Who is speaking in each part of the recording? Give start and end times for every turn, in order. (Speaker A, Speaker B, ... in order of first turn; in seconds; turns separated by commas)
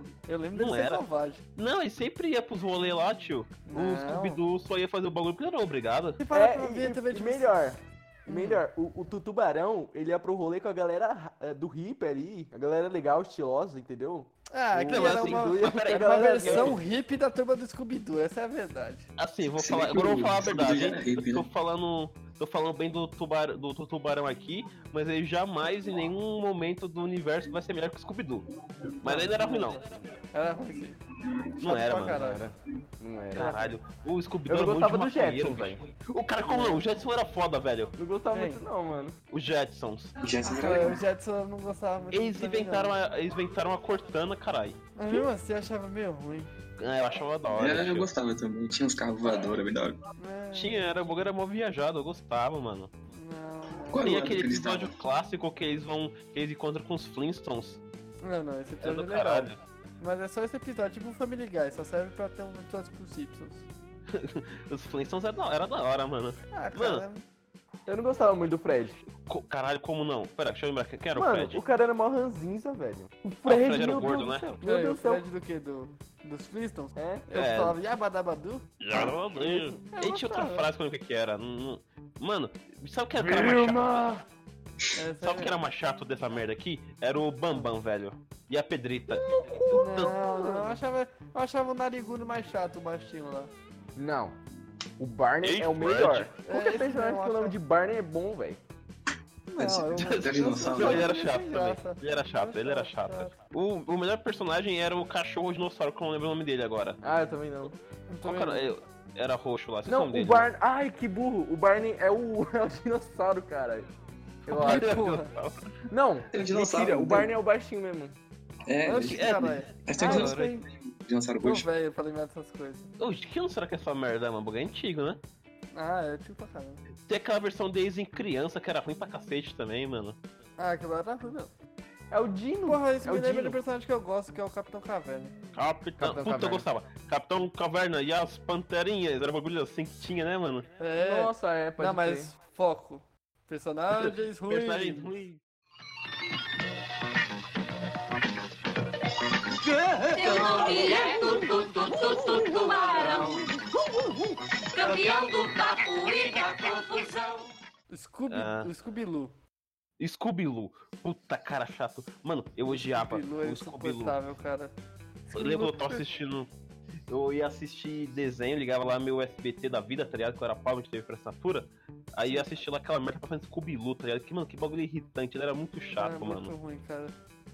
Speaker A: 0.3-1.4, Speaker B: 0.5-1.0, Speaker B: 1.6-6.2, Speaker A: 3.7-4.4, Speaker A: 6.2-7.6, Speaker C: 6.3-16.8, Speaker A: 8.2-8.6, Speaker A: 14.5-19.1, Speaker B: 14.9-16.8, Speaker B: 19.2-28.5, Speaker D: 19.6-21.5, Speaker B: 29.0-29.8, Speaker A: 29.0-29.8, Speaker A: 30.3-31.0, Speaker B: 31.6-32.2, Speaker A: 31.6-32.4, Speaker C: 32.1-33.5, Speaker B: 33.3-37.9, Speaker A: 33.4-33.7, Speaker C: 34.5-35.8, Speaker A: 36.4-36.8, Speaker C: 38.0-39.1, Speaker A: 38.3-38.6, Speaker B: 39.3-40.1, Speaker D: 40.2-41.0, Speaker A: 40.4-43.0, Speaker B: 42.1-45.2, Speaker A: 45.0-46.5, Speaker B: 46.8-48.1, Speaker D: 47.5-50.0, Speaker A: 50.2-51.0, Speaker B: 50.5-52.9, Speaker A: 53.1-54.0, Speaker D: 53.9-55.0, Speaker B: 54.0-57.8, Speaker A: 58.2-63.6, Speaker B: 58.8-59.6, Speaker B: 64.1-67.0, Speaker A: 66.5-67.2, Speaker C: 67.9-69.0, Speaker B: 69.2-71.6, Speaker C: 71.1-75.2, Speaker B: 73.4-74.5, Speaker A: 74.6-78.7, Speaker C: 77.0-77.2, Speaker B: 77.3-77.8, Speaker B: 78.8-84.0, Speaker C: 79.4-79.8, Speaker A: 79.9-80.7, Speaker C: 83.2-84.2, Speaker A: 84.9-85.5, Speaker B: 85.2-90.2, Speaker C: 89.2-90.8, Speaker A: 89.3-93.5, Speaker C: 94.0-94.4, Speaker C: 95.0-98.6, Speaker B: 95.4-96.3, Speaker A: 96.4-97.5, Speaker A: 99.5-103.3, Speaker D: 99.6-101.1, Speaker B: 100.0-107.0, Speaker C: 107.0-107.8, Speaker A: 108.1-108.7, Speaker B: 108.2-110.5, Speaker C: 109.8-113.9, Speaker C: 114.5-114.9, Speaker B: 114.5-115.7, Speaker A: 114.6-115.3, Speaker C: 115.9-118.2, Speaker D: 116.3-117.3, Speaker D: 118.7-121.7, Speaker A: 118.8-120.5, Speaker B: 119.0-120.5, Speaker C: 120.0-120.4, Speaker A: 121.4-122.9, Speaker B: 123.0-125.2, Speaker A: 125.7-126.8, Speaker B: 127.0-130.2, Speaker A: 130.6-131.5, Speaker C: 132.1-133.6, Speaker A: 132.7-135.3, Speaker B: 135.5-140.7, Speaker C: 136.0-136.6, Speaker A: 140.8-145.1, Speaker C: 141.0-142.3, Speaker B: 143.9-145.4, Speaker A: 149.7-150.7, Speaker E: 150.1-153.4, Speaker E: 154.7-157.5, Speaker A: 157.9-159.3, Speaker B: 158.3-158.7, Speaker B: 160.0-164.2, Speaker A: 162.7-164.7, Speaker A: 165.3-166.0, Speaker B: 165.3-166.5, Speaker B: 167.1-176.5, Speaker A: 175.9-177.1